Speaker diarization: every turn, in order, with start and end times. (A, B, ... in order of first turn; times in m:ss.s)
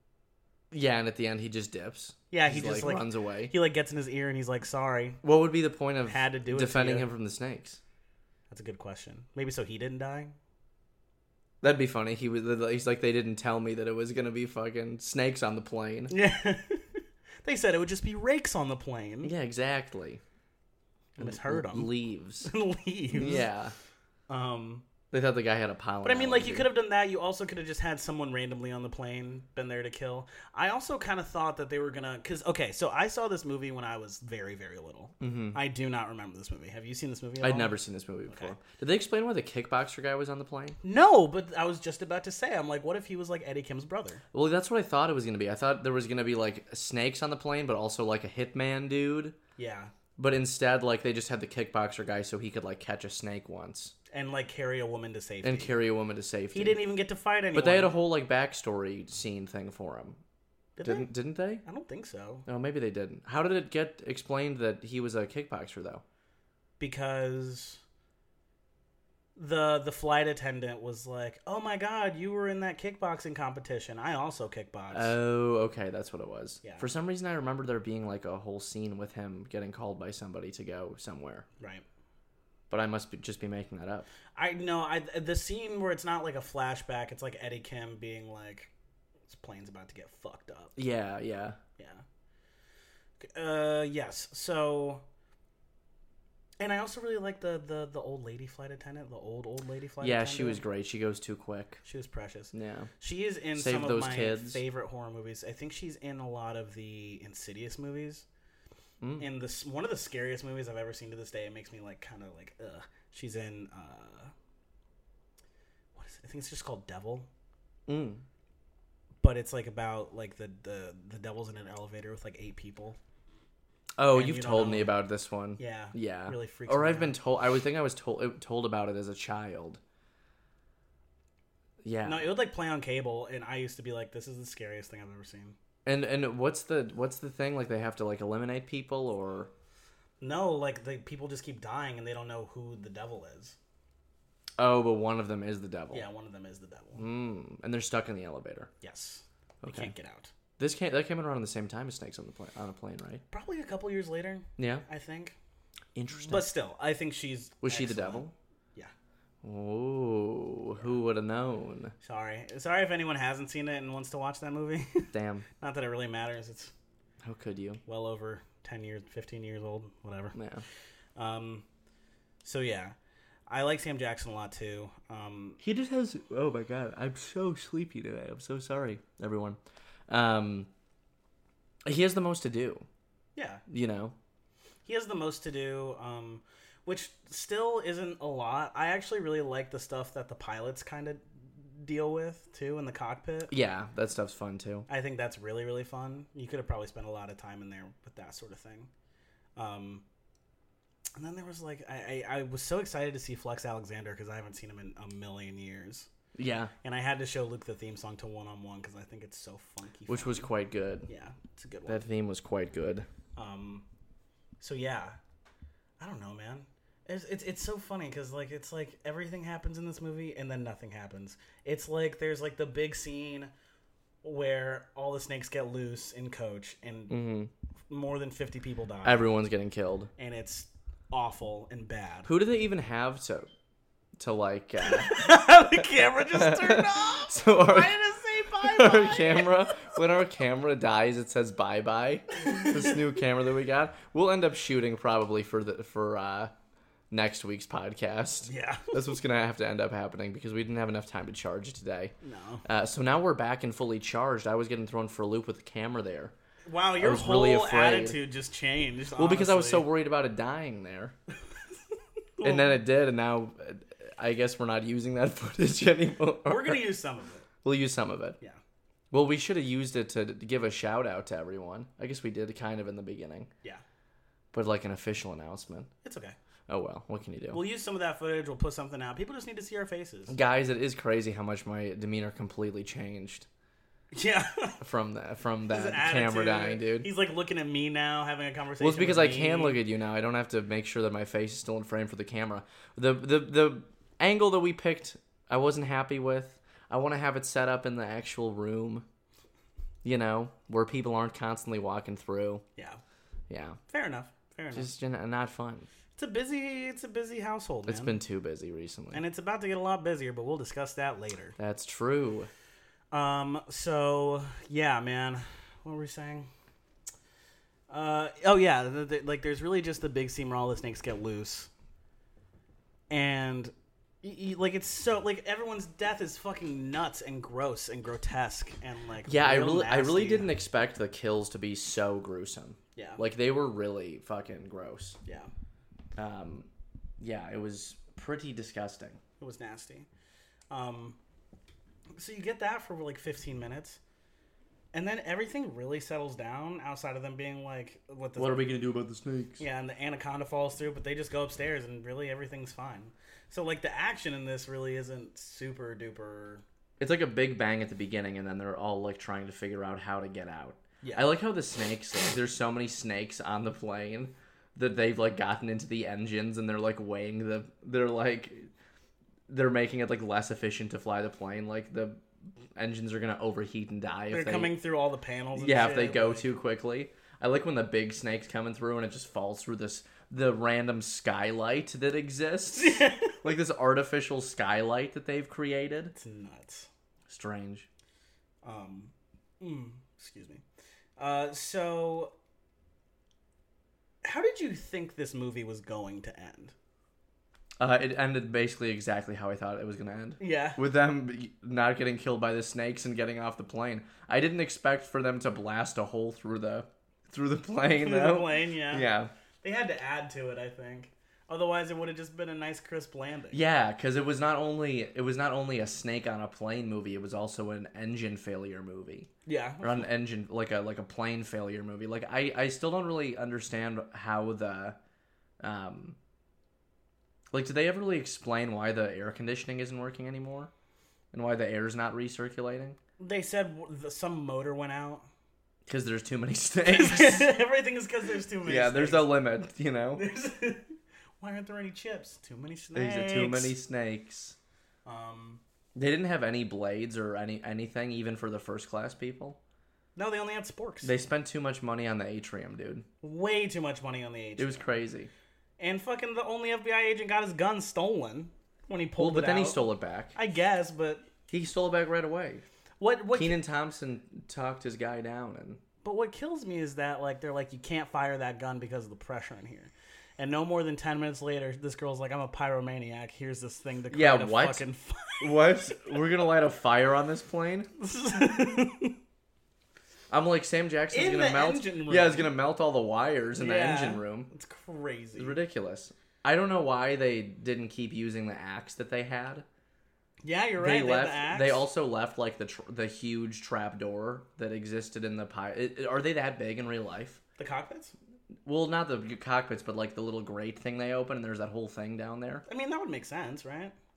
0:00.7-0:03.5 A
0:02.3-0:05.2 B
0:05.2-0:07.8 A
0:06.1-0:07.1 B
0:08.5-0:10.4 B
0:11.6-0:16.1 A
0:16.1-0:19.3 B
0:19.2-0:20.2 A
0:21.2-0:21.9 B
0:21.2-0:22.5 A
0:22.4-0:23.5 B
0:23.1-0:23.8 A
0:24.3-0:24.8 B
0:25.1-0:26.7 A
0:26.0-0:37.8 B
0:35.2-0:35.6 A
0:37.4-0:40.8 A
0:38.3-0:38.5 B
0:40.8-0:44.2 B
0:44.3-0:49.4 A
0:49.6-0:49.9 B
0:50.2-0:53.9 A
0:54.1-0:55.8 B
0:55.4-0:56.8 A
0:56.5-0:58.0 B
0:57.5-1:00.2 A
1:00.8-1:01.1 B
1:00.8-1:01.6 A
1:01.6-1:02.4 B
1:02.4-1:06.0 A
1:06.8-1:07.8 B
1:09.4-1:15.1 B
1:14.9-1:21.4 A
1:21.6-1:21.8 B
1:22.7-1:24.1 A
1:24.4-1:28.7 B
1:29.3-1:30.8 B
1:30.8-1:31.6 A
1:31.8-1:32.0 B
1:33.2-1:35.0 B
1:36.6-1:40.6 B
1:40.0-1:41.8 A
1:41.8-1:48.2 B
1:42.5-1:42.9 A
1:43.5-1:44.6 A
1:49.2-1:54.3 B
1:55.9-1:57.3 B
1:57.9-1:58.2 A
1:59.2-2:03.0 B
2:04.0-2:09.8 A
2:04.1-2:05.0 B
2:05.6-2:07.2 B
2:11.8-2:12.3 A
2:12.0-2:15.6 B
2:15.8-2:19.5 A
2:20.2-2:23.6 B
2:24.6-2:26.1 A
2:25.9-2:27.0 B
2:27.0-2:28.7 A
2:28.8-2:30.3 B
2:29.6-2:29.9 A
2:30.6-2:33.2 A
2:33.3-2:35.4 B
2:34.6-2:34.8 A
2:35.9-2:36.5 A
2:36.3-2:38.9 B
2:37.6-2:38.3 A
2:39.4-2:41.9 A
2:42.0-2:46.7 B
2:45.1-2:45.4 A
2:47.2-2:47.8 A
2:47.9-2:50.4 B
2:50.4-2:50.6 A
2:51.2-2:51.6 B
2:52.4-2:52.9 B
2:53.5-2:55.6 B
2:55.6-2:59.6 A
3:00.1-3:00.7 A
3:01.9-3:02.9 A
3:03.4-3:03.6 B
3:03.7-3:04.1 A
3:04.9-3:13.5 B
3:13.5-3:14.9 A
3:14.9-3:18.9 B
3:19.6-3:20.0 B
3:21.2-3:26.1 B
3:26.4-3:26.7 A
3:26.8-3:30.5 B
3:30.1-3:31.1 A
3:31.1-3:32.0 B
3:31.9-3:33.1 A
3:33.4-3:33.9 B
3:34.6-3:35.2 B
3:36.0-3:43.5 B
3:44.2-3:47.2 B
3:47.1-3:47.5 A
3:47.9-3:49.2 B
3:49.0-3:50.1 A
3:50.2-3:52.3 B
3:52.2-3:53.5 A
3:54.2-3:55.4 A
3:54.8-4:00.0 B
3:56.2-3:58.0 A
3:58.6-4:06.5 A
4:07.1-4:12.1 A
4:08.4-4:09.0 B
4:12.2-4:12.6 B
4:12.6-4:16.3 A
4:16.6-4:19.9 B
4:17.0-4:18.2 A
4:19.2-4:21.1 A
4:22.4-4:22.8 B
4:22.4-4:26.8 A
4:26.4-4:27.4 B
4:27.6-4:28.4 A
4:29.1-4:33.5 A
4:34.5-4:35.9 A
4:36.0-4:36.4 B
4:36.7-4:37.6 A
4:37.5-4:40.4 B
4:40.3-4:43.5 A
4:44.1-4:44.8 B
4:44.8-4:47.1 A
4:45.7-4:49.8 B
4:48.8-4:59.0 A
5:00.0-5:02.6 A
5:03.5-5:03.8 A
5:03.9-5:04.9 B
5:04.7-5:05.9 A
5:06.2-5:08.2 B
5:07.9-5:09.2 A
5:09.1-5:11.6 B
5:11.6-5:12.5 A
5:13.1-5:16.5 B
5:17.9-5:21.7 B
5:23.1-5:30.5 B
5:29.2-5:35.2 A
5:33.0-5:33.2 B
5:35.2-5:35.5 B
5:36.2-5:36.7 A
5:37.2-5:39.2 A
5:39.4-5:40.1 B
5:40.7-5:41.2 B
5:42.2-5:44.0 B
5:44.9-5:48.6 B
5:48.4-5:49.6 A
5:49.6-5:56.6 B
5:57.0-6:08.7 A
6:01.0-6:01.3 B
6:09.5-6:12.2 A
6:12.7-6:14.7 A
6:14.3-6:16.5 B
6:15.6-6:26.1 A
6:22.7-6:23.4 B
6:26.1-6:26.9 B
6:27.3-6:27.9 A
6:28.6-6:30.6 B
6:31.2-6:32.3 B
6:34.2-6:36.7 B
6:37.8-6:49.3 A
6:40.4-6:40.8 B
6:48.0-6:49.1 B
6:49.6-6:53.6 B
6:53.5-6:59.3 A
6:59.4-7:00.1 B
6:59.8-7:05.0 A
7:05.6-7:06.2 A
7:07.5-7:10.7 A
7:11.3-7:13.0 A
7:13.2-7:15.2 B
7:15.9-7:17.6 A
7:16.9-7:19.4 B
7:18.6-7:20.2 A
7:20.1-7:23.8 B
7:22.9-7:24.6 A
7:25.1-7:25.6 B
7:25.9-7:29.6 A
7:30.2-7:31.1 B
7:31.0-7:33.0 A
7:33.2-7:34.9 B
7:34.6-7:35.3 A
7:35.8-7:41.2 B
7:39.2-7:40.4 A
7:41.5-7:42.6 A
7:43.0-7:43.6 B
7:43.3-7:45.8 A
7:46.0-7:56.0 B
7:54.1-7:54.8 A
7:55.4-7:57.9 A
7:58.0-7:59.1 B
8:00.3-8:04.5 A
8:01.1-8:02.5 B
8:03.6-8:05.6 B
8:05.4-8:09.6 A
8:10.4-8:11.9 B
8:10.8-8:17.4 A
8:17.6-8:18.1 B
8:18.6-8:22.6 A
8:22.7-8:23.9 B